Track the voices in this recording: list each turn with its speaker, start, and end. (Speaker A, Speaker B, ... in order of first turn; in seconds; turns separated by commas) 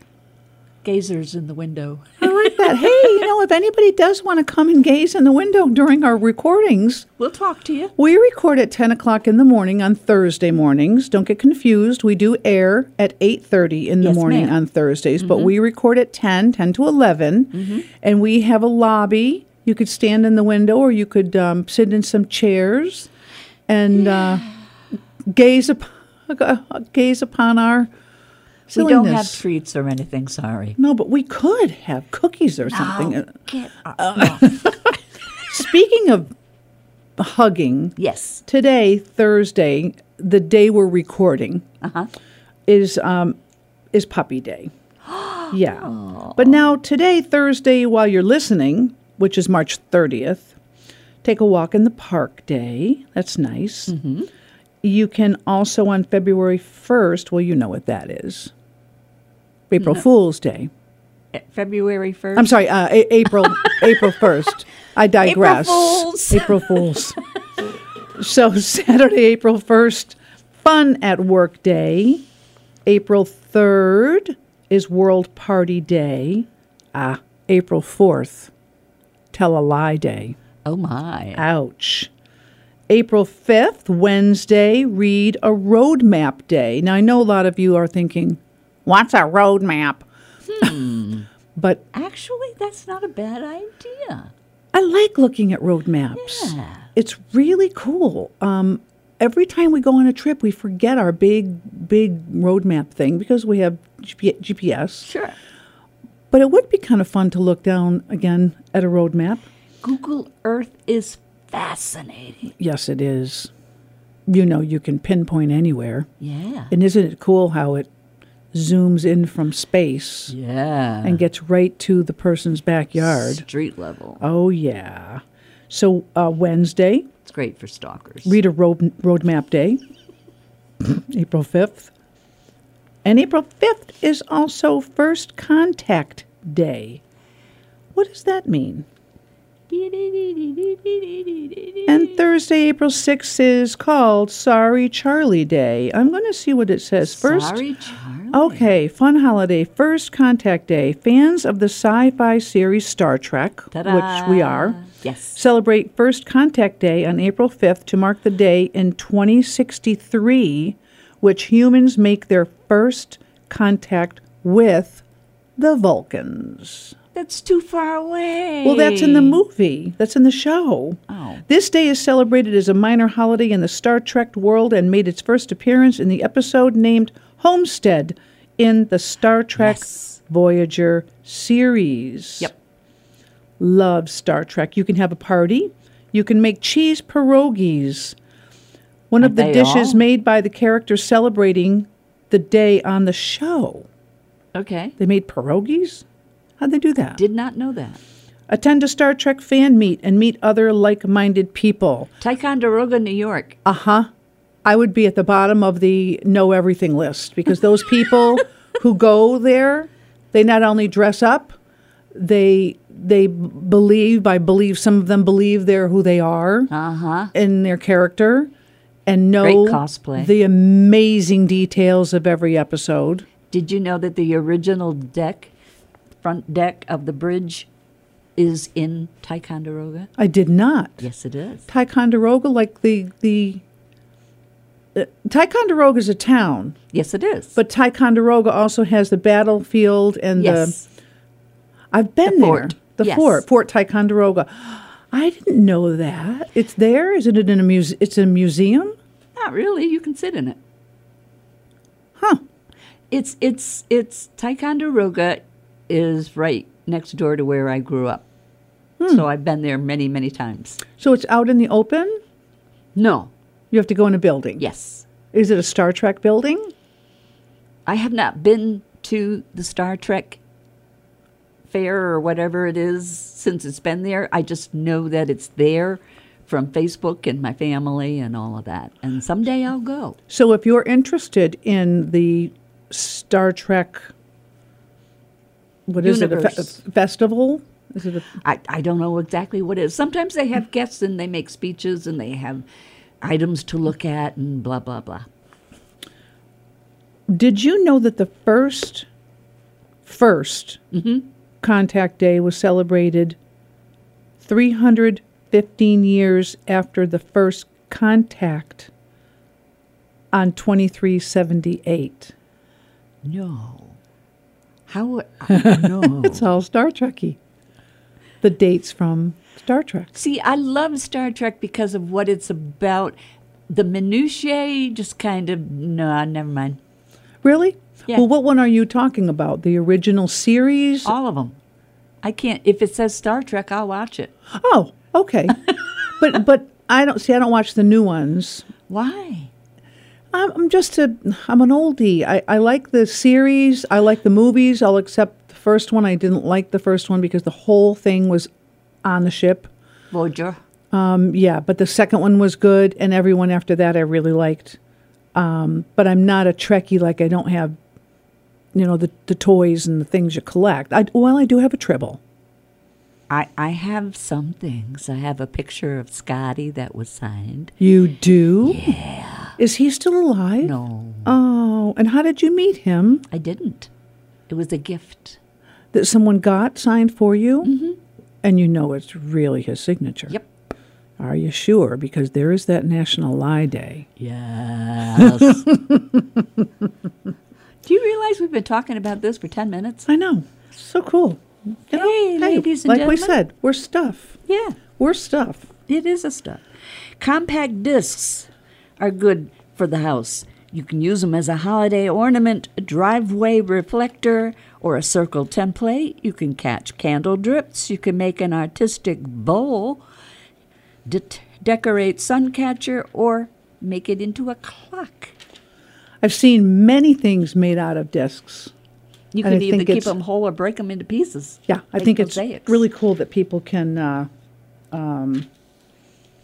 Speaker A: 0.8-3.0, Speaker B: 2.2-7.1, Speaker A: 7.2-7.9, Speaker B: 8.0-23.1, Speaker A: 14.0-14.6, Speaker A: 15.2-15.5, Speaker A: 17.5-17.9, Speaker B: 23.7-24.4, Speaker B: 25.3-27.9, Speaker A: 28.7-30.8, Speaker B: 28.7-29.4, Speaker B: 30.8-33.3, Speaker A: 32.7-34.8, Speaker B: 34.0-34.9, Speaker B: 35.5-36.3, Speaker B: 37.2-37.9, Speaker A: 38.0-38.4, Speaker B: 38.5-41.6, Speaker A: 41.8-42.1, Speaker B: 42.7-43.4, Speaker B: 43.9-44.7, Speaker A: 45.0-46.5, Speaker B: 45.5-50.5, Speaker B: 51.2-53.9, Speaker A: 53.9-54.3, Speaker B: 54.8-58.5, Speaker B: 59.7-60.7, Speaker A: 61.3-62.6, Speaker B: 62.3-67.2, Speaker A: 65.2-66.9, Speaker B: 68.2-72.2, Speaker B: 72.8-78.5, Speaker B: 79.3-80.3, Speaker A: 80.6-81.4, Speaker B: 81.4-82.1, Speaker B: 82.9-90.0, Speaker A: 90.5-91.3, Speaker B: 91.5-91.8, Speaker A: 91.9-94.3, Speaker B: 94.7-105.1, Speaker A: 96.2-96.8, Speaker A: 105.0-105.3, Speaker B: 106.3-109.4, Speaker A: 109.8-112.5, Speaker B: 112.6-113.5, Speaker B: 114.3-116.1, Speaker A: 116.2-116.7, Speaker B: 116.7-117.9, Speaker B: 118.5-120.3, Speaker A: 120.3-121.2, Speaker B: 121.0-123.4, Speaker A: 123.0-124.2, Speaker B: 124.2-127.1, Speaker A: 127.2-128.4, Speaker B: 128.2-129.8, Speaker B: 130.8-131.9, Speaker B: 133.0-137.0, Speaker B: 137.9-138.8, Speaker A: 139.7-142.2, Speaker B: 141.8-147.6, Speaker A: 147.0-148.7, Speaker B: 148.3-154.8, Speaker A: 153.7-155.4, Speaker B: 155.3-165.0, Speaker B: 165.6-166.9, Speaker A: 167.1-169.4, Speaker B: 168.6-182.5, Speaker A: 171.1-171.4, Speaker A: 179.6-180.2, Speaker B: 183.6-188.2, Speaker B: 189.1-193.9, Speaker A: 189.2-190.0, Speaker A: 194.5-194.9, Speaker B: 195.0-196.0, Speaker B: 196.6-197.2, Speaker A: 197.2-198.0, Speaker B: 198.5-202.1, Speaker A: 202.2-203.6, Speaker B: 203.6-204.1, Speaker B: 204.6-211.6, Speaker B: 212.1-216.7, Speaker A: 216.7-217.3, Speaker B: 217.3-218.5, Speaker B: 219.1-223.3, Speaker A: 219.4-220.3, Speaker A: 223.5-225.5, Speaker A: 226.2-227.7, Speaker A: 228.4-230.1, Speaker B: 230.2-231.1, Speaker A: 231.0-231.7, Speaker B: 231.7-233.6, Speaker B: 234.9-236.8, Speaker A: 236.9-237.6, Speaker B: 237.6-240.8, Speaker A: 240.3-240.8, Speaker B: 241.9-248.9, Speaker A: 242.2-243.4, Speaker A: 249.3-250.6, Speaker B: 252.2-252.4, Speaker A: 253.1-258.2, Speaker B: 259.0-259.2, Speaker A: 259.1-260.8, Speaker B: 261.0-262.2, Speaker A: 262.9-263.3, Speaker B: 263.7-264.6, Speaker A: 264.6-265.1, Speaker B: 265.3-266.7, Speaker A: 267.9-270.4, Speaker A: 271.7-280.2, Speaker B: 280.3-284.1, Speaker B: 285.9-288.3, Speaker A: 286.0-286.8, Speaker A: 288.4-292.6, Speaker A: 293.2-295.3, Speaker B: 297.3-299.1, Speaker B: 300.0-300.8, Speaker A: 300.9-301.2, Speaker B: 301.6-303.4, Speaker B: 304.4-308.9, Speaker B: 310.3-312.3, Speaker A: 313.2-314.0, Speaker A: 314.9-316.4, Speaker B: 315.5-317.4, Speaker B: 318.4-320.2, Speaker A: 320.1-323.1, Speaker A: 323.7-326.8, Speaker B: 327.4-331.1, Speaker A: 331.0-331.6, Speaker A: 332.2-334.3, Speaker B: 334.5-335.6, Speaker B: 336.1-338.7, Speaker A: 338.9-339.5, Speaker B: 340.3-348.5, Speaker B: 349.0-349.7, Speaker A: 350.1-350.6, Speaker B: 350.9-354.8, Speaker B: 355.3-357.8, Speaker B: 358.7-362.2, Speaker A: 363.3-367.7, Speaker B: 367.8-368.9, Speaker A: 368.6-369.6, Speaker B: 369.6-370.7, Speaker A: 370.6-371.4, Speaker B: 371.2-373.2, Speaker A: 373.3-373.9, Speaker A: 374.5-375.4, Speaker B: 375.9-377.7, Speaker A: 377.6-378.0, Speaker B: 378.4-380.3, Speaker B: 381.2-384.1, Speaker A: 384.2-385.7, Speaker B: 385.2-386.6, Speaker A: 387.8-390.1, Speaker B: 390.1-394.4, Speaker A: 391.9-393.4, Speaker A: 394.5-394.8, Speaker B: 395.0-395.7, Speaker A: 395.9-396.6, Speaker A: 397.2-410.0, Speaker A: 411.1-415.4, Speaker B: 416.2-418.7, Speaker A: 419.3-422.8, Speaker B: 419.4-420.1, Speaker B: 421.7-424.3, Speaker B: 424.9-425.5